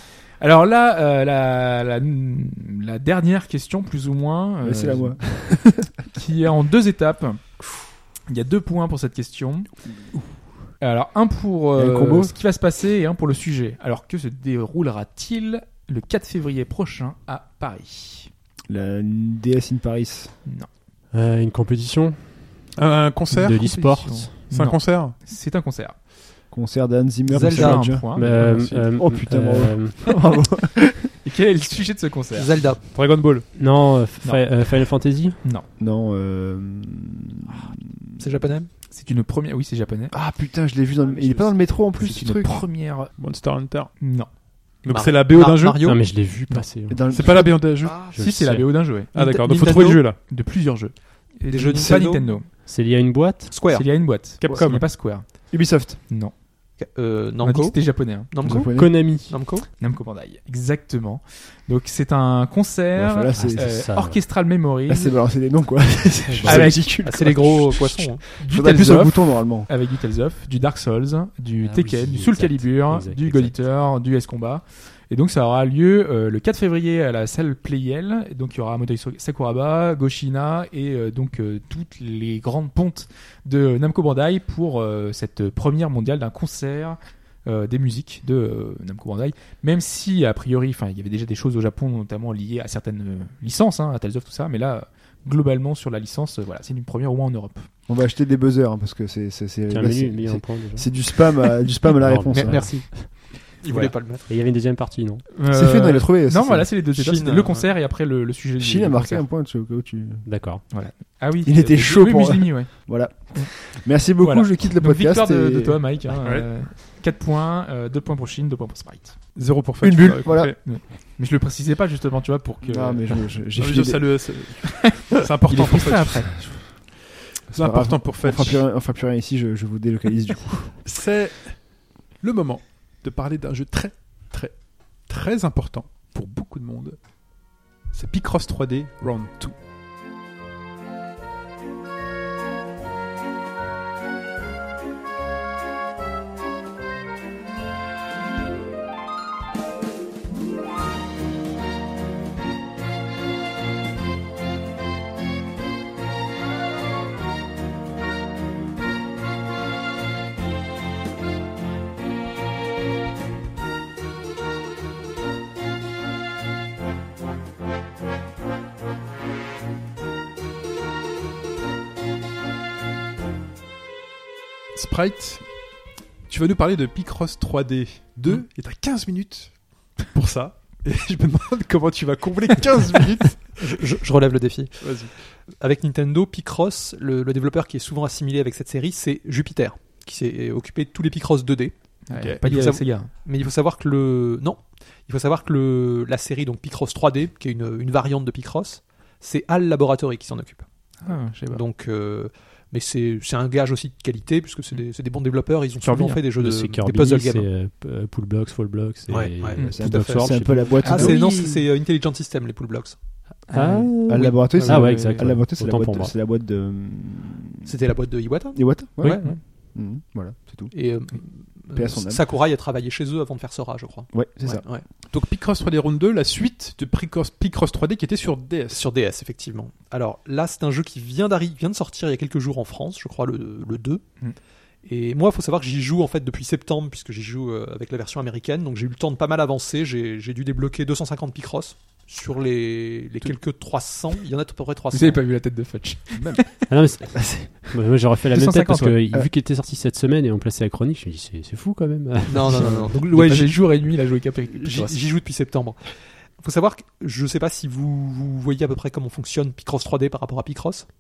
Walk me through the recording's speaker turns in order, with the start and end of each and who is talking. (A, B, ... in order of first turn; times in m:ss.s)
0:00.4-0:05.3 A
0:04.6-0:05.9 B
0:06.1-0:07.6 A
0:08.3-0:09.7 A
0:10.8-0:18.3 A
0:11.8-0:12.4 B
0:18.7-0:20.3 B
0:21.1-0:22.4 C
0:22.8-0:23.7 D
0:23.3-0:24.3 C
0:23.4-0:26.0 A
0:24.5-0:25.2 D
0:26.5-0:31.1 B
0:27.3-0:28.0 E
0:27.4-0:28.6 A
0:28.1-0:30.0 C
0:28.4-0:28.9 D
0:31.2-0:32.5 A
0:32.3-0:32.8 E
0:32.9-0:33.5 D
0:33.6-0:35.4 C
0:34.2-0:34.6 A
0:35.8-0:38.2 B
0:38.2-0:38.7 E
0:38.9-0:40.1 A
0:40.1-0:42.7 B
0:42.0-0:44.3 A
0:43.2-0:44.0 D
0:44.8-0:45.8 D
0:44.9-0:46.1 E
0:45.8-0:47.0 C
0:46.9-0:47.9 B
0:47.1-0:48.0 D
0:48.0-0:52.5 A
0:48.1-0:48.8 C
0:49.1-0:50.2 D
0:49.2-0:50.0 E
0:51.5-0:52.4 E
0:52.7-0:53.5 C
0:53.5-0:54.0 E
0:53.7-0:55.5 A
0:54.4-0:54.9 D
0:54.5-0:56.0 B
0:56.8-0:59.7 E
0:57.4-0:58.3 A
0:58.4-0:59.1 B
0:58.7-0:59.4 C
0:59.8-1:05.2 A
1:03.0-1:03.8 B
1:03.4-1:04.2 C
1:04.9-1:09.7 B
1:06.4-1:08.2 E
1:06.4-1:07.5 A
1:08.4-1:37.7 A
1:11.6-1:13.6 C
1:37.9-1:42.9 B
1:39.7-1:41.1 C
1:42.0-1:43.2 C
1:42.3-1:44.3 E
1:43.7-1:43.9 A
1:44.3-1:45.2 C
1:45.3-1:49.3 A
1:45.5-1:46.8 B
1:46.9-1:47.7 E
1:48.6-1:50.3 B
1:50.2-1:50.6 C
1:50.7-1:53.5 A
1:51.4-1:56.0 B
1:54.2-1:59.2 A
1:56.2-1:56.5 D
1:59.4-2:00.6 D
1:59.8-2:00.6 B
2:00.6-2:03.3 A
2:02.6-2:04.4 B
2:03.6-2:06.4 D
2:05.0-2:06.3 A
2:06.4-2:06.7 B
2:07.5-2:10.8 B
2:07.5-2:08.6 D
2:10.8-2:17.0 D
2:17.9-2:19.6 D
2:54.8-2:55.5 D
2:56.3-3:03.8 D
3:03.6-3:11.7 E
3:04.8-3:05.1 D
3:12.1-3:13.1 A
3:12.1-3:12.4 D
3:12.4-3:20.7 E
3:21.0-3:21.6 A
3:21.4-3:27.5 E
3:25.8-3:26.2 A
3:26.4-3:31.2 C
3:29.1-3:33.0 E
3:29.6-3:31.3 B
3:30.8-3:31.6 A
3:33.5-3:34.0 A
3:33.5-3:36.2 C
3:34.1-3:37.7 B
3:34.1-3:35.2 E
3:34.5-3:35.3 A
3:37.6-3:39.4 E
3:38.5-3:40.7 B
3:39.0-3:39.4 A
3:40.7-3:44.8 E
3:41.7-3:42.2 B
3:44.1-3:44.6 B
3:45.1-3:48.8 D
3:48.7-3:54.0 E
3:54.8-4:05.3 E
4:04.9-4:06.6 A
4:06.7-4:12.9 C
4:07.2-4:07.5 B
4:08.3-4:09.0 A
4:12.3-4:13.8 E
4:12.8-4:15.0 A
4:14.5-4:20.9 E